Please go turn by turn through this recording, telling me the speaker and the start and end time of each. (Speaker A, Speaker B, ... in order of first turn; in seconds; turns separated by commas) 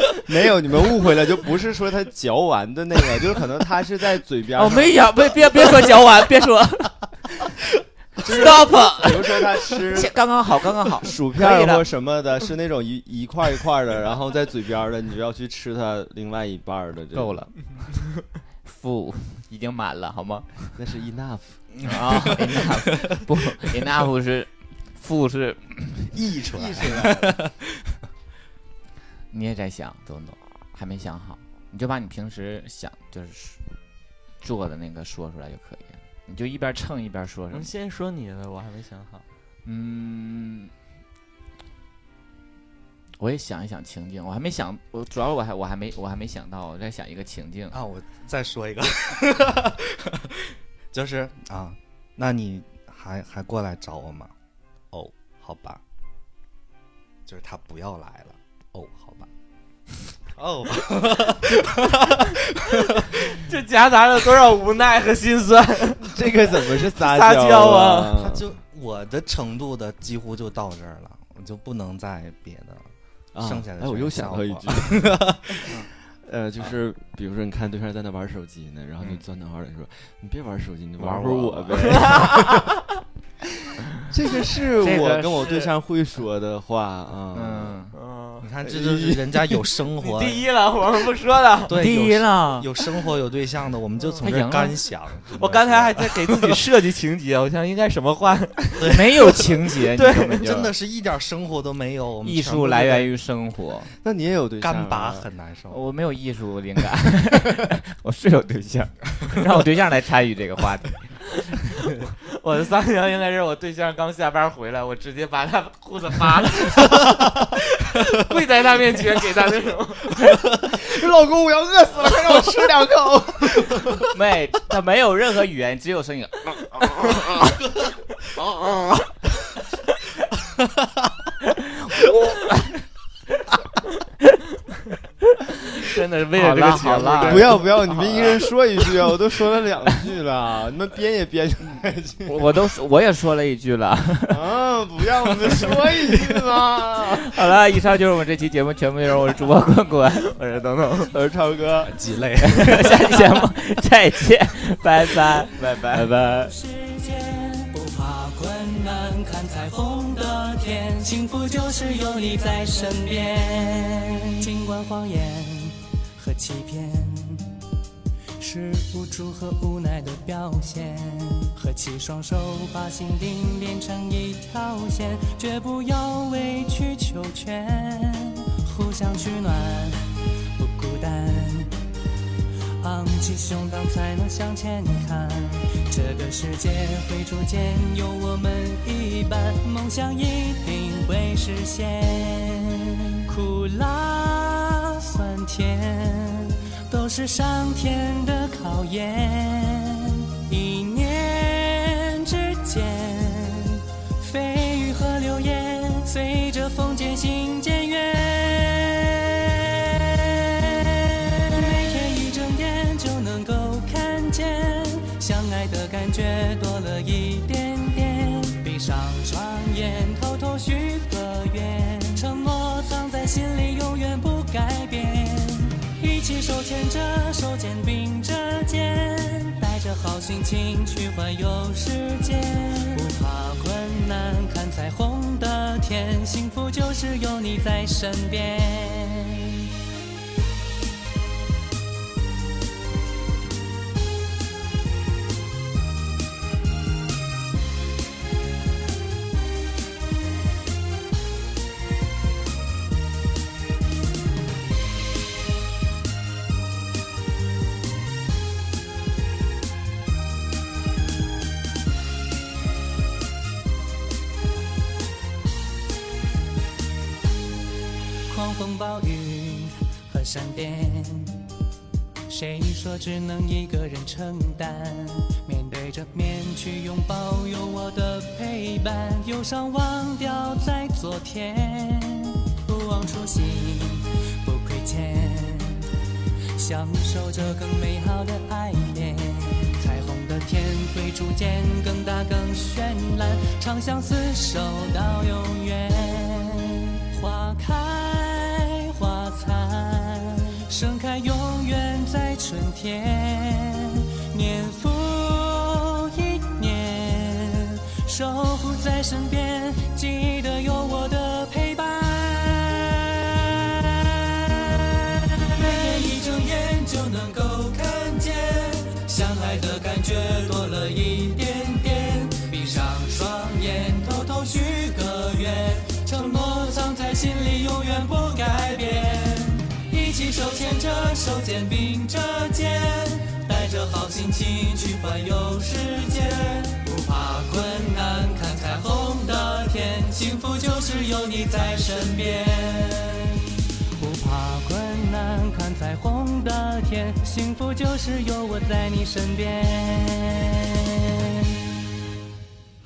Speaker A: 0.3-5.2, Speaker B: 4.5-7.5, Speaker A: 8.2-10.2, Speaker B: 8.2-11.9, Speaker A: 10.9-17.4, Speaker B: 17.1-17.9, Speaker B: 18.6-20.7, Speaker A: 20.8-21.6, Speaker C: 21.8-23.0, Speaker B: 21.8-26.1, Speaker C: 26.1-27.6, Speaker A: 26.5-27.4, Speaker B: 29.3-33.6, Speaker B: 34.4-37.7, Speaker D: 37.5-39.2, Speaker B: 39.6-40.7, Speaker B: 43.2-47.8, Speaker C: 47.7-54.3, Speaker C: 54.9-55.8, Speaker C: 57.3-59.3, Speaker C: 60.3-63.4, Speaker D: 62.9-68.2, Speaker A: 66.0-68.5, Speaker C: 68.2-75.7, Speaker A: 73.3-82.7, Speaker B: 81.0-81.8, Speaker D: 81.8-82.8, Speaker A: 84.1-87.8, Speaker B: 84.8-85.7, Speaker B: 87.3-88.0, Speaker D: 88.0-88.5, Speaker C: 88.4-90.5, Speaker A: 88.6-89.4, Speaker D: 90.0-91.8, Speaker C: 91.7-96.6, Speaker B: 91.8-92.7, Speaker B: 94.2-94.8, Speaker D: 95.4-99.4, Speaker C: 98.8-99.4, Speaker B: 98.9-100.7, Speaker D: 99.9-100.4, Speaker C: 100.4-103.1, Speaker B: 102.2-103.9, Speaker A: 104.0-105.3, Speaker C: 104.6-105.8, Speaker B: 105.7-111.3, Speaker D: 111.8-120.3, Speaker C: 120.3-124.0, Speaker A: 122.1-122.9, Speaker B: 124.1-127.2, Speaker C: 130.6-131.0, Speaker D: 135.7-138.2, Speaker B: 136.4-137.6, Speaker A: 137.2-142.3, Speaker B: 142.3-144.4, Speaker A: 144.3-147.3, Speaker B: 145.4-145.9, Speaker B: 147.2-150.3, Speaker D: 150.3-151.1, Speaker A: 151.1-152.0, Speaker C: 151.9-152.9, Speaker B: 152.5-156.5, Speaker D: 155.6-156.0, Speaker E: 156.2-167.5, Speaker E: 168.4-181.8, Speaker E: 182.8-239.6, Speaker E: 268.3-271.5, Speaker E: 272.3-285.9, Speaker E: 286.6-351.5